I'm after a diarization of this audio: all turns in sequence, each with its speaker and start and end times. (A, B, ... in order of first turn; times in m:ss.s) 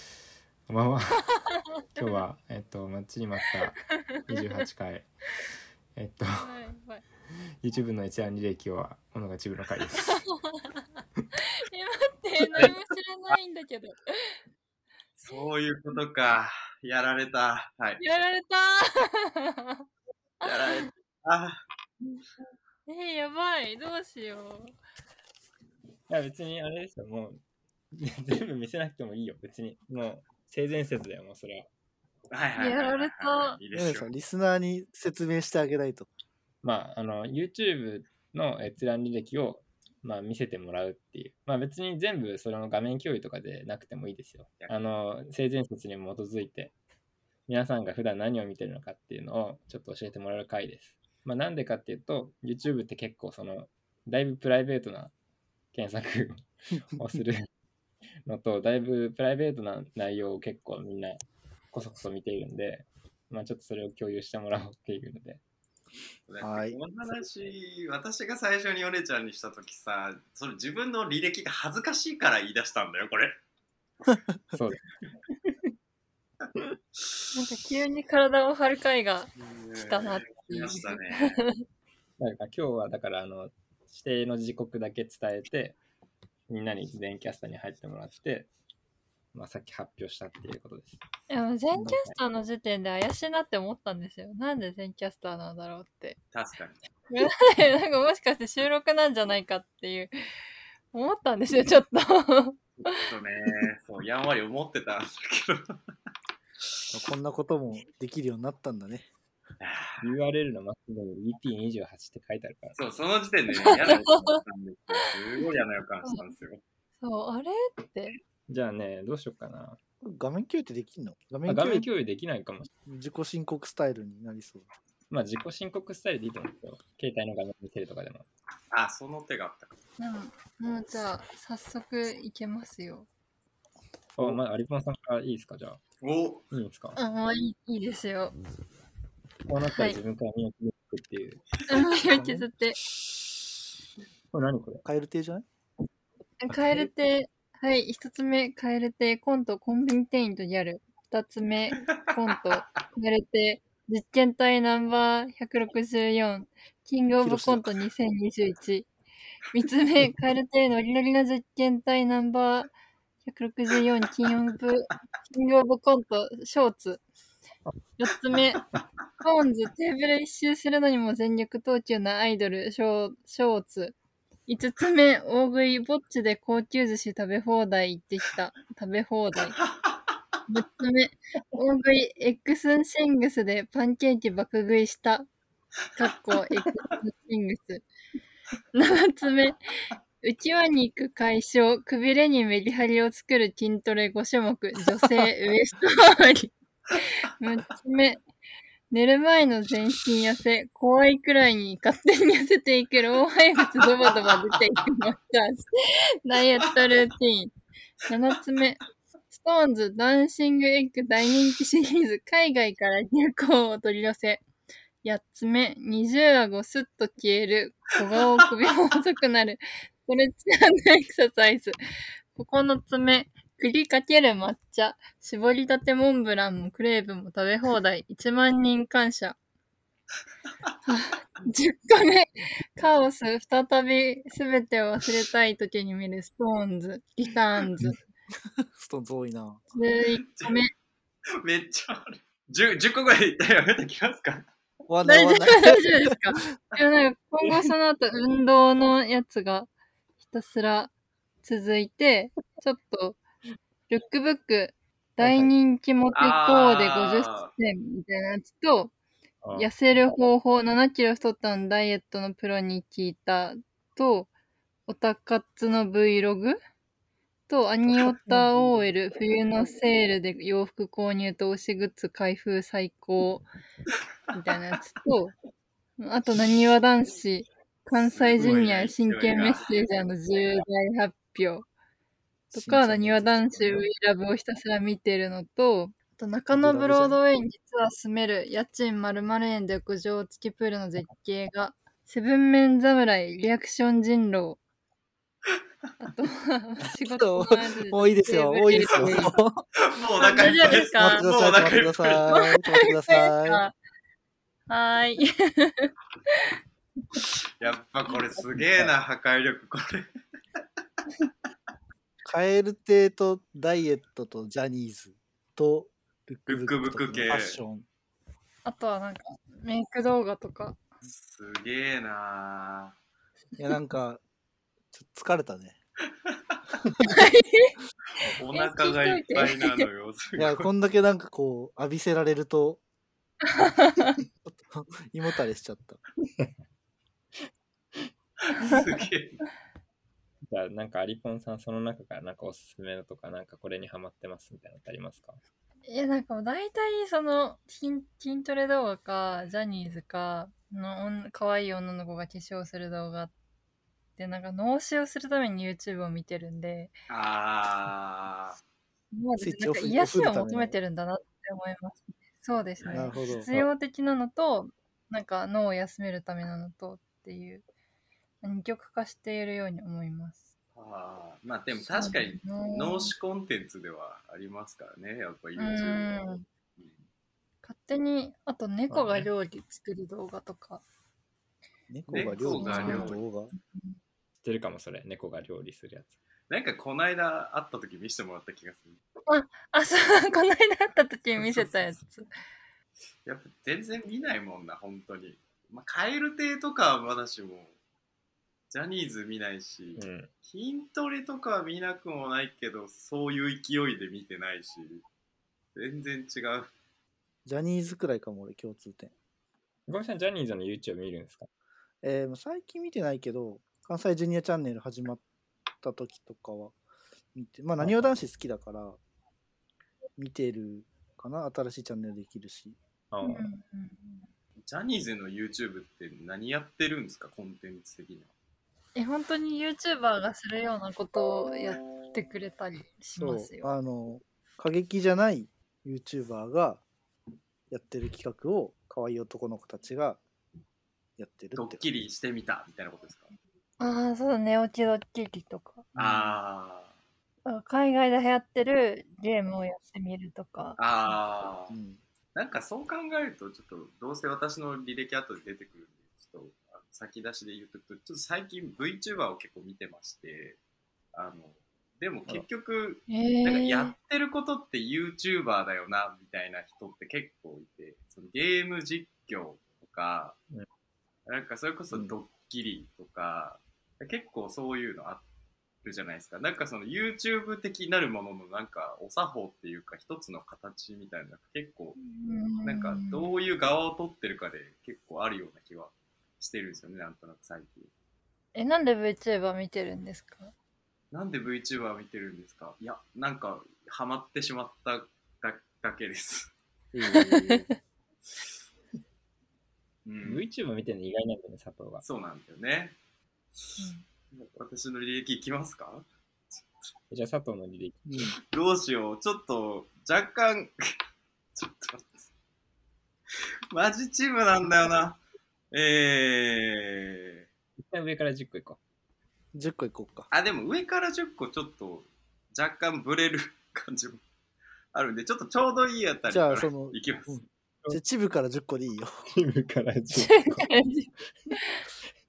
0:00.7-0:01.4 A
0:02.0-0:02.2 B
0:02.0-0:05.1 A
0:03.9-0:04.4 B
0:05.9-0:06.5 A
0:06.3-0:07.0 B
0:07.6-0:10.2 A
0:10.1-0:10.8 B
0:11.4-0:14.4 B
0:15.2-0:18.0 C
0:18.0-0:19.8 B
0:20.4-0:20.9 B
0:20.4-0:21.6 C
0:22.9-0:24.7 B
0:26.1-0:27.4 A
0:27.9-0:31.7 A
0:32.3-0:34.1 C
0:32.6-0:33.6 B
0:33.7-0:36.1 D
0:36.6-0:46.7 A
0:47.5-0:55.1 A
0:55.7-0:57.5 A
0:58.2-1:05.4 A
1:06.3-1:13.4 C
1:06.4-1:06.8 D
1:14.0-1:14.3 D
1:14.5-1:14.9 A
1:17.3-1:21.6 B
1:19.4-1:21.4 C
1:22.2-1:25.8 A
1:26.5-1:28.5 A
1:29.3-1:31.0 A
1:31.3-1:36.2 B
1:31.8-1:32.2 A
1:36.3-1:36.8 C
1:37.1-1:40.1 B
1:40.9-1:43.1 B
1:42.8-1:45.8 C
1:46.9-1:49.1 D
1:49.6-1:50.0 C
1:50.0-1:52.8 A
1:52.8-1:56.6 C
1:53.5-1:55.1 B
1:57.0-1:58.2 B
1:58.5-1:59.8 A
2:00.0-2:01.9 D
2:01.4-2:02.7 A
2:02.8-2:04.7 D
2:05.1-2:08.3 A
2:08.7-2:09.7 C
2:10.0-2:13.1 B
2:14.2-2:15.8 A
2:16.0-2:16.4 C
2:16.5-2:17.0 A
2:17.0-2:18.4 B
2:19.5-2:21.4 A
2:19.6-2:20.0 B
2:21.7-2:22.8 B
2:21.9-2:22.5 D
2:24.3-2:24.8 A
2:24.8-2:25.4 D
2:26.4-2:38.9 B
2:37.2-2:37.6 D
2:39.5-2:42.7 B
2:43.2-2:47.0 B
2:48.0-2:48.6 B
2:49.2-2:54.0 B
2:54.5-2:59.6 B
3:00.5-3:05.2 B
3:06.0-3:07.8 B
3:08.7-3:09.6 B
3:10.2-3:16.5 B
3:17.3-3:18.2 B
3:18.9-3:27.5 B
3:28.0-3:34.4 B
3:35.0-3:41.8 B
3:42.3-3:49.4 B
3:50.8-3:58.0 B
3:58.5-3:59.6 D
3:59.7-4:00.7 B
4:00.3-4:00.6 C
4:01.4-4:04.4 C
4:04.9-4:05.8 D
4:05.0-4:09.7 B
4:10.2-4:10.9 B
4:11.4-4:13.2 B
4:13.9-4:18.9 B
4:15.2-4:15.5 A
4:16.1-4:17.5 C
4:19.4-4:19.7 A
4:19.5-4:24.3 B
4:24.9-4:26.6 B
4:27.5-4:33.5 B
4:28.3-4:28.7 D
4:34.3-4:35.3 B
4:36.0-4:41.7 B
4:37.9-4:39.7 C
4:42.5-4:43.8 D
4:42.5-4:54.6 B
4:46.5-4:47.2 D
4:56.0-4:59.4 B
4:56.8-4:59.6 D
4:59.9-5:02.2 C
5:00.2-5:01.3 B
5:00.6-5:03.6 D
5:02.3-5:03.7 B
5:04.7-5:06.5 B
5:07.6-5:10.1 C
5:12.2-5:17.8 D
5:16.5-5:17.6 C
5:18.6-5:20.8 B
5:21.1-5:22.9 C
5:23.6-5:24.2 D
5:24.9-5:25.8 D
5:27.0-5:27.7 B
5:28.4-5:30.7 C
5:28.5-5:29.9 B
5:30.4-5:32.8 D
5:33.5-5:34.2 B
5:34.4-5:36.0 D
5:38.4-5:39.4 C
5:38.6-5:38.8 B
5:40.4-5:45.4 A
5:45.9-5:53.3 B
5:54.2-5:56.9 B
5:57.1-5:58.6 C
5:59.1-6:07.6 B
5:59.4-6:00.8 D
6:02.8-6:03.1 C
6:02.9-6:03.5 D
6:08.4-6:10.5 B
6:10.7-6:16.2 C
6:11.8-6:13.1 B
6:15.6-6:16.4 B
6:16.8-6:17.0 C
6:17.6-6:20.8 B
6:18.9-6:19.3 A
6:21.9-6:23.5 D
6:22.1-6:23.2 C
6:22.4-6:23.2 B
6:24.4-6:26.2 A
6:26.5-6:29.0 C
6:29.3-6:32.3 B
6:33.2-6:37.7 C
6:38.7-6:45.0 C
6:40.0-6:40.3 A
6:45.8-6:46.7 C
6:47.4-6:49.1 D
6:49.9-6:51.5 A
6:52.0-6:55.2 D
6:55.8-6:56.8 D
6:57.3-6:59.0 D
6:57.8-6:58.2 A
7:00.2-7:02.8 D
7:03.1-7:03.5 A
7:03.2-7:04.3 B
7:04.6-7:08.3 C
7:09.0-7:13.8 B
7:13.2-7:16.8 D
7:17.7-7:20.2 D
7:21.2-7:21.9 D
7:21.5-7:23.3 C
7:23.8-7:25.9 B
7:25.9-7:26.4 D
7:26.0-7:26.9 C
7:27.4-7:31.1 B
7:30.8-7:31.7 C
7:31.7-7:32.0 D
7:32.3-7:40.6 C
7:41.1-7:50.4 C
7:43.1-7:44.0 B
7:51.2-7:55.2 C
7:55.8-8:02.0 C
8:02.0-8:03.4 B
8:02.6-8:07.9 C
8:08.5-8:10.5 B
8:11.1-8:16.5 C
8:16.9-8:17.7 D
8:17.1-8:17.6 B
8:20.0-8:20.4 C
8:20.2-8:22.0 A
8:22.0-8:23.0 C
8:23.8-8:24.0 B
8:24.3-8:26.6 C
8:27.1-8:28.3 A
8:28.1-8:28.3 D
8:28.5-8:30.8 C
8:31.6-8:32.3 C
8:33.7-8:35.2 C
8:35.7-8:37.4 C
8:37.8-8:38.8 A
8:39.5-8:40.3 D
8:40.3-8:44.2 C
8:44.9-8:47.4 C
8:46.3-8:49.2 D
8:49.3-8:50.7 A
8:50.1-8:51.8 B